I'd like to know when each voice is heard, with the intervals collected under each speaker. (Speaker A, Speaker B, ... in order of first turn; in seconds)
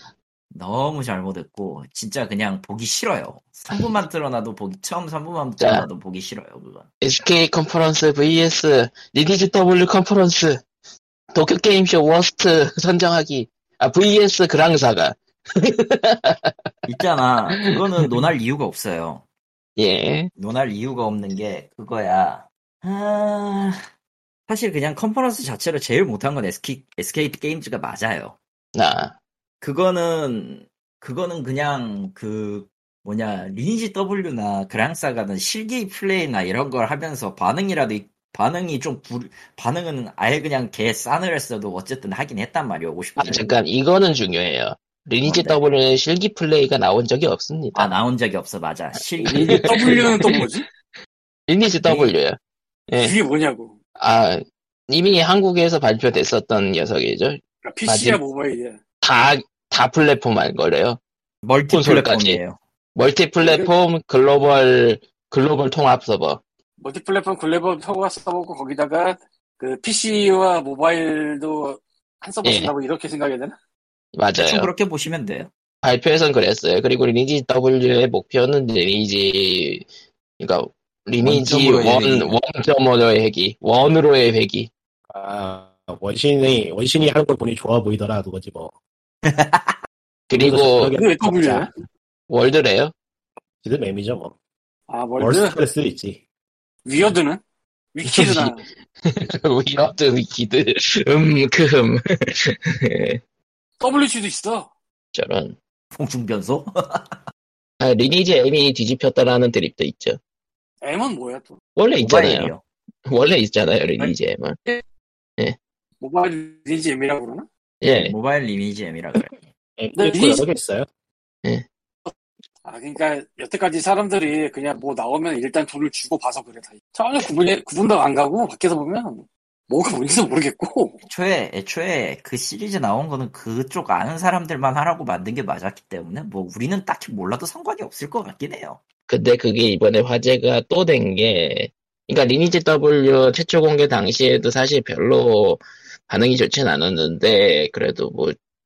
Speaker A: 0.5-6.9, 16.9-19.2, 20.4-23.8, 24.5-28.4, 29.6-43.5, 45.2-45.6, 47.7-50.4, 51.8-52.1, 61.4-62.6, 74.4-75.5, 81.2-82.3, 89.2-89.8, 105.9-107.2, 112.0-112.6, 117.9-119.4, 131.0-138.8
Speaker B: 5.6-5.8, 7.0-10.6, 11.3-16.7, 19.8-20.3, 28.7-29.1, 43.2-47.9, 49.2-50.5, 51.5-52.4, 52.9-53.1, 54.0-58.2, 59.0-61.0, 61.7-62.4, 63.0-66.4, 72.4-72.7, 74.1-74.7, 75.8-79.8, 80.4-84.7, 90.3-90.9, 92.3-92.9, 98.0-103.2, 105.1-105.5, 107.8-110.2, 111.8-112.5, 113.1-114.6, 117.8-118.1, 139.1-148.3
Speaker C: 49.2-50.6, 53.0-53.7, 57.6-58.8, 63.4-63.7, 66.8-73.5, 91.0-91.7, 94.9-95.6, 96.8-97.4, 97.9-98.6, 103.8-104.7, 110.8-111.6, 116.0-117.5, 119.9-120.4, 122.6-131.0
Speaker D: 85.1-88.7, 90.3-91.7, 93.6-94.3, 95.2-96.2, 119.8-120.9